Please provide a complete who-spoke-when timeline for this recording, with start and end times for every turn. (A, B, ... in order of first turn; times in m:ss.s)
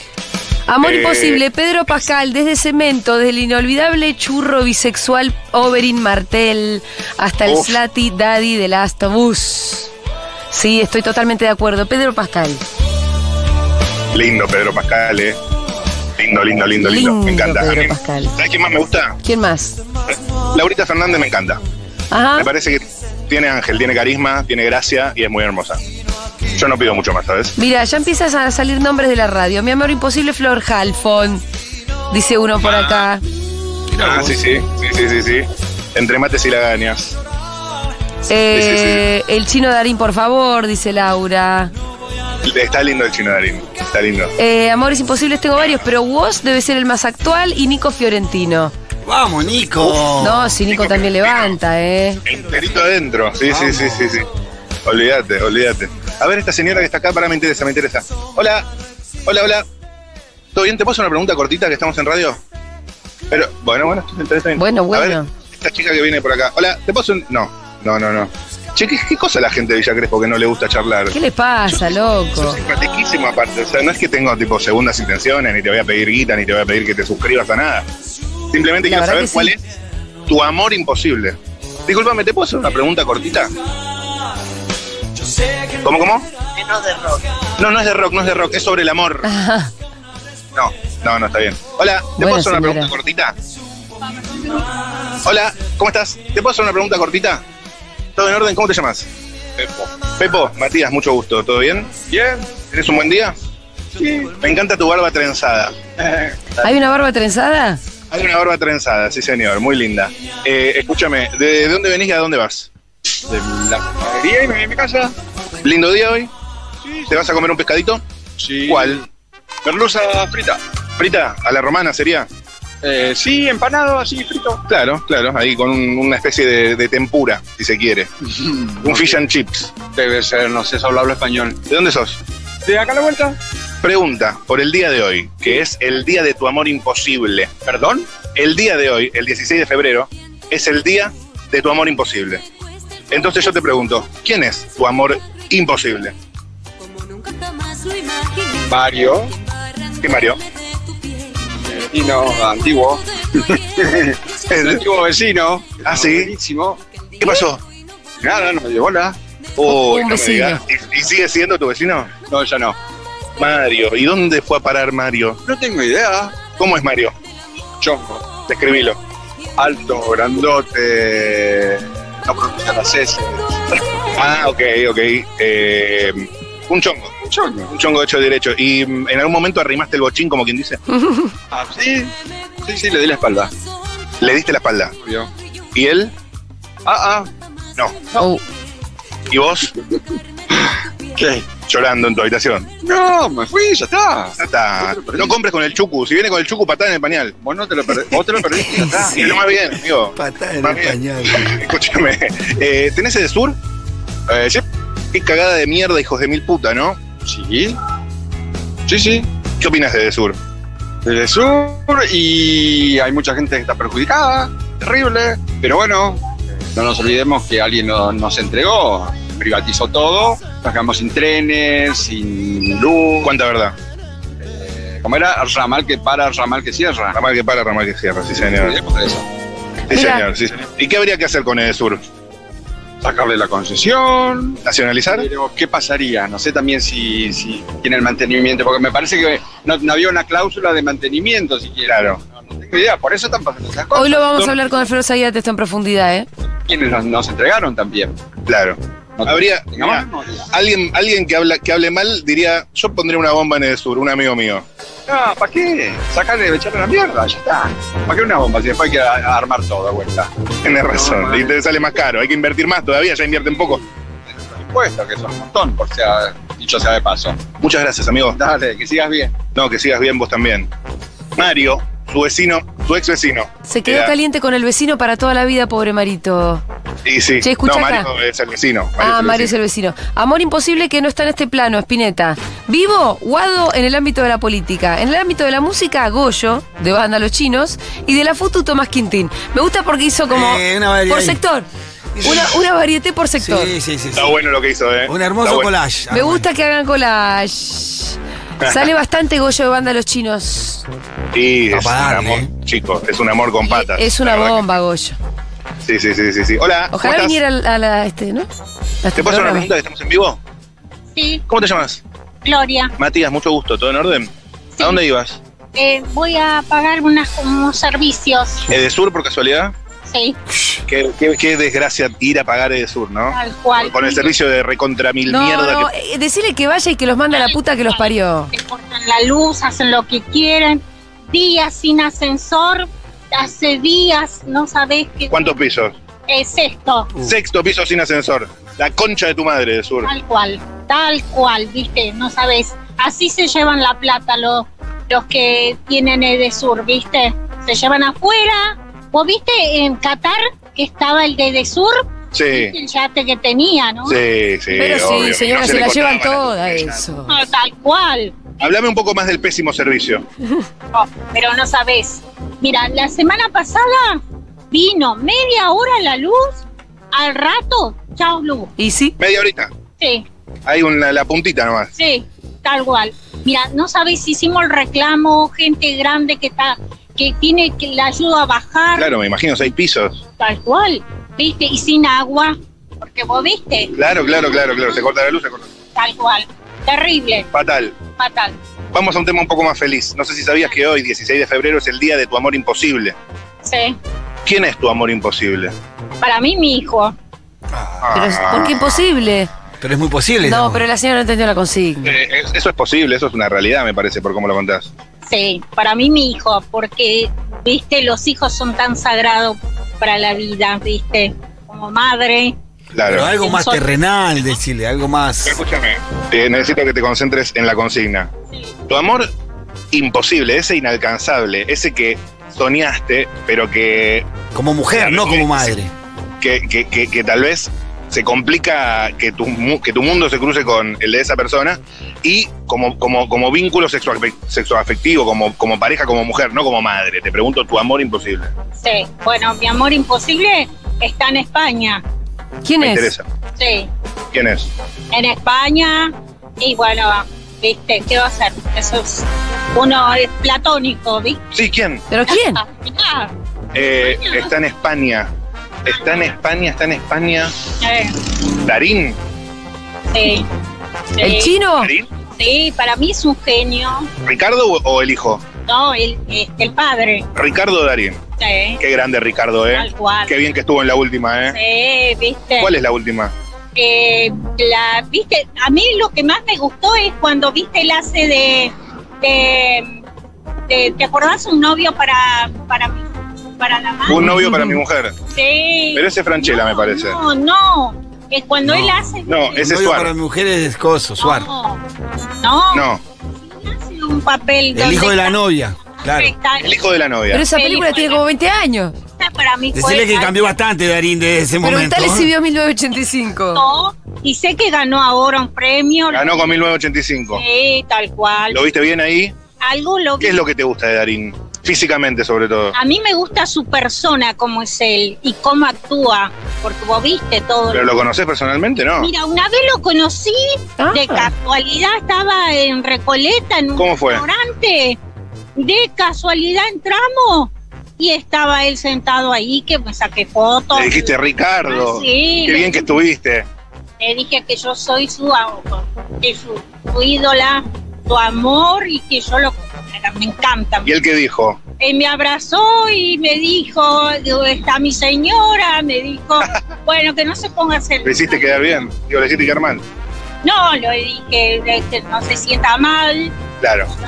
0:00.7-0:09.9 A
0:00.8-0:01.4 B
0:07.4-0:07.8 B
0:10.5-0:12.6 A
0:14.1-0:15.4 B
0:16.2-0:19.2 B
0:16.8-0:18.4 A
0:19.2-0:19.8 A
0:20.1-0:21.6 B
0:22.1-0:22.5 A
0:22.4-0:25.8 B
0:26.5-0:27.5 B
0:27.6-0:31.4 A
0:32.1-0:33.2 A
0:32.6-0:33.0 B
0:33.9-0:34.4 C
0:34.0-0:37.2 B
0:38.3-0:41.7 A
0:38.5-0:39.0 B
0:42.4-0:44.3 B
0:44.4-0:48.7 A
0:49.0-0:50.6 C
0:50.0-0:52.2 A
0:50.7-0:51.6 B
0:52.2-0:54.3 B
0:53.5-0:54.2 C
0:54.8-0:58.7 B
0:59.2-0:59.6 B
1:00.5-1:02.4 B
1:03.3-1:11.2 B
1:04.6-1:05.3 A
1:11.1-1:12.6 A
1:11.7-1:17.9 B
1:18.5-1:19.6 B
1:18.8-1:19.5 A
1:20.3-1:23.5 B
1:25.8-1:26.3 B
1:27.6-1:29.3 B
1:29.2-1:29.7 A
1:30.5-1:33.4 B
1:32.2-1:32.9 A
1:35.2-1:37.4 B
1:38.2-1:39.1 B
1:39.6-1:39.9 D
1:40.0-1:41.9 B
1:42.1-1:42.5 D
1:42.7-1:43.4 B
1:44.0-1:44.4 D
1:44.4-1:45.8 B
1:46.0-1:46.7 D
1:46.6-1:47.8 A
1:48.1-1:52.7 B
1:53.2-1:55.1 D
1:55.6-1:56.3 B
1:56.8-1:57.2 D
1:57.1-1:58.0 B
1:58.4-1:59.0 D
1:58.7-1:59.0 B
1:59.6-2:00.6 D
2:01.0-2:02.3 B
2:02.8-2:04.6 D
2:04.7-2:08.1 B
2:08.4-2:09.2 D
2:08.8-2:09.7 B
2:09.9-2:11.6 D
2:11.7-2:12.2 B
2:12.6-2:13.4 D
2:13.8-2:17.5 B
2:17.6-2:18.1 D
2:18.3-2:22.4 B
2:23.1-2:26.1 B
2:28.6-2:29.3 D
2:30.0-2:30.4 B
2:31.6-2:36.8 D
2:34.5-2:34.8 B
2:35.8-2:36.3 B
2:37.2-2:37.6 B
2:38.2-2:39.2 D
2:39.6-2:42.1 B
2:39.6-2:40.6 A
2:42.3-2:42.8 D
2:43.4-2:45.4 B
2:45.4-2:46.4 D
2:46.4-2:47.1 B
2:47.8-2:48.3 D
2:48.5-2:49.0 B
2:49.6-2:53.6 D
2:54.2-2:57.1 B
2:57.2-2:57.7 D
2:57.7-3:00.8 B
3:01.0-3:01.3 A
3:01.5-3:03.5 D
3:04.2-3:04.9 B
3:05.0-3:05.3 D
3:05.7-3:06.1 B
3:06.8-3:07.3 D
3:08.2-3:08.4 A
3:09.3-3:09.7 B
3:10.5-3:11.5 D
3:11.6-3:12.7 B
3:12.8-3:15.4 D
3:14.4-3:17.3 B
3:17.4-3:19.4 D
3:18.6-3:23.6 B
3:20.1-3:21.6 C
3:24.3-3:24.6 D
3:25.1-3:27.0 B
3:27.2-3:27.8 D
3:28.8-3:29.3 D
3:29.6-3:30.4 B
3:31.0-3:36.2 D
3:36.7-3:43.3 D
3:43.2-3:43.8 B
3:44.4-3:47.2 D
3:47.1-3:48.8 B
3:48.4-3:49.2 D
3:49.9-3:52.0 B
3:49.9-3:50.3 A
3:53.0-4:04.5 D
3:54.6-3:55.3 B
4:01.9-4:02.2 B
4:03.9-4:06.3 A
4:06.6-4:08.2 D
4:08.4-4:14.6 B
4:09.2-4:10.5 D
4:15.1-4:20.3 D
4:20.6-4:23.8 B
4:21.0-4:21.5 D
4:23.5-4:27.4 D
4:27.6-4:28.4 B
4:28.3-4:29.4 D
4:29.5-4:30.7 B
4:31.4-4:34.1 B
4:33.6-4:36.6 A
4:37.0-4:39.5 B
4:37.4-4:38.1 A
4:39.0-4:51.6 A
4:50.3-4:51.4 C
4:52.1-4:52.6 C
4:52.2-4:53.7 A
4:53.4-4:54.3 C
4:54.1-4:55.7 B
4:55.1-4:56.5 C
4:56.1-5:00.8 A
4:58.6-4:58.9 B
5:01.3-5:04.7 B
5:01.7-5:02.5 C
5:03.7-5:05.2 A
5:05.8-5:07.4 B
5:06.9-5:08.5 A
5:09.0-5:09.7 A
5:09.2-5:10.4 B
5:11.1-5:11.4 E
5:11.5-5:12.0 B
5:12.4-5:12.9 E
5:13.0-5:15.4 B
5:14.7-5:15.0 E
5:15.8-5:18.7 E
5:18.7-5:19.7 B
5:20.0-5:20.4 E
5:20.9-5:25.9 B
5:23.3-5:24.3 E
5:25.3-5:28.5 A
5:27.3-5:35.6 E
5:35.3-5:35.9 B
5:36.3-5:37.1 E
5:37.2-5:40.1 B
5:40.0-5:54.2 E
5:52.3-5:52.7 B
5:54.0-5:57.0 B
5:54.7-5:57.3 A
5:57.3-5:58.4 E
5:58.6-6:00.2 B
6:00.9-6:06.6 E
6:07.1-6:08.7 E
6:08.8-6:09.2 A
6:09.2-6:09.7 B
6:10.0-6:10.2 E
6:10.6-6:11.9 B
6:12.0-6:19.2 E
6:19.0-6:20.2 B
6:20.4-6:23.9 E
6:23.9-6:25.7 B
6:25.9-6:27.5 E
6:27.5-6:28.0 B
6:28.1-6:28.6 E
6:28.9-6:33.2 B
6:33.6-6:34.0 E
6:34.4-6:35.7 B
6:36.2-6:37.1 E
6:37.7-6:38.6 C
6:38.0-6:39.0 B
6:38.1-6:39.5 A
6:39.8-6:40.8 C
6:40.4-6:42.1 A
6:42.0-6:44.9 B
6:45.2-6:52.6 E
6:52.9-6:53.3 B
6:53.0-6:55.6 C
6:53.4-6:54.0 E
6:55.4-6:58.3 B
6:58.9-6:59.3 B
6:59.9-7:04.3 B
7:04.5-7:05.9 C
7:04.9-7:05.7 B
7:06.4-7:18.5 B
7:18.8-7:22.0 E
7:22.6-7:23.1 A
7:22.8-7:23.2 B
7:23.6-7:23.9 E
7:24.3-7:24.7 B
7:25.1-7:31.4 E
7:31.5-7:32.1 B
7:32.1-7:32.6 A
7:32.3-7:33.3 E
7:33.7-7:35.3 B
7:34.0-7:34.5 E
7:35.8-7:37.5 B
7:37.8-7:38.2 E
7:38.6-7:39.2 B
7:40.1-7:40.5 E
7:41.2-7:41.6 E
7:41.2-7:41.9 A
7:41.8-7:42.1 B
7:42.4-7:44.1 E
7:44.2-7:45.5 B
7:45.6-7:47.3 E
7:47.3-7:48.2 B
7:48.4-7:48.8 E
7:48.8-7:51.6 B
7:49.7-7:50.4 E
7:51.5-7:52.8 E
7:52.6-7:53.3 B
7:53.7-8:00.0 E
8:00.7-8:03.0 E
8:03.6-8:04.4 E
8:04.1-8:05.2 B
8:04.3-8:04.8 A
8:05.3-8:09.6 E
8:05.9-8:07.2 B
8:08.6-8:09.0 C
8:09.3-8:10.1 B
8:09.5-8:11.5 C
8:11.2-8:11.8 E
8:12.4-8:12.9 E
8:12.7-8:13.0 B
8:13.4-8:15.4 E
8:14.7-8:16.3 C
8:16.0-8:16.8 E
8:16.6-8:17.4 B
8:17.3-8:19.0 A
8:17.5-8:18.2 E
8:19.1-8:20.5 E
8:19.7-8:22.3 C
8:21.6-8:23.6 A
8:23.5-8:26.5 E
8:26.1-8:27.4 B
8:27.3-8:28.6 E
8:28.5-8:29.3 B
8:29.6-8:30.4 E
8:30.2-8:32.7 B
8:32.7-8:37.9 E
8:37.7-8:39.1 B
8:39.0-8:45.0 E
8:40.8-8:41.3 A
8:43.8-8:44.2 B
8:45.6-8:52.9 E
8:50.7-8:53.5 B
8:54.0-9:00.9 E
9:00.8-9:01.6 B
9:01.8-9:08.6 E
9:08.0-9:09.8 B
9:10.4-9:13.4 E
9:13.6-9:13.9 B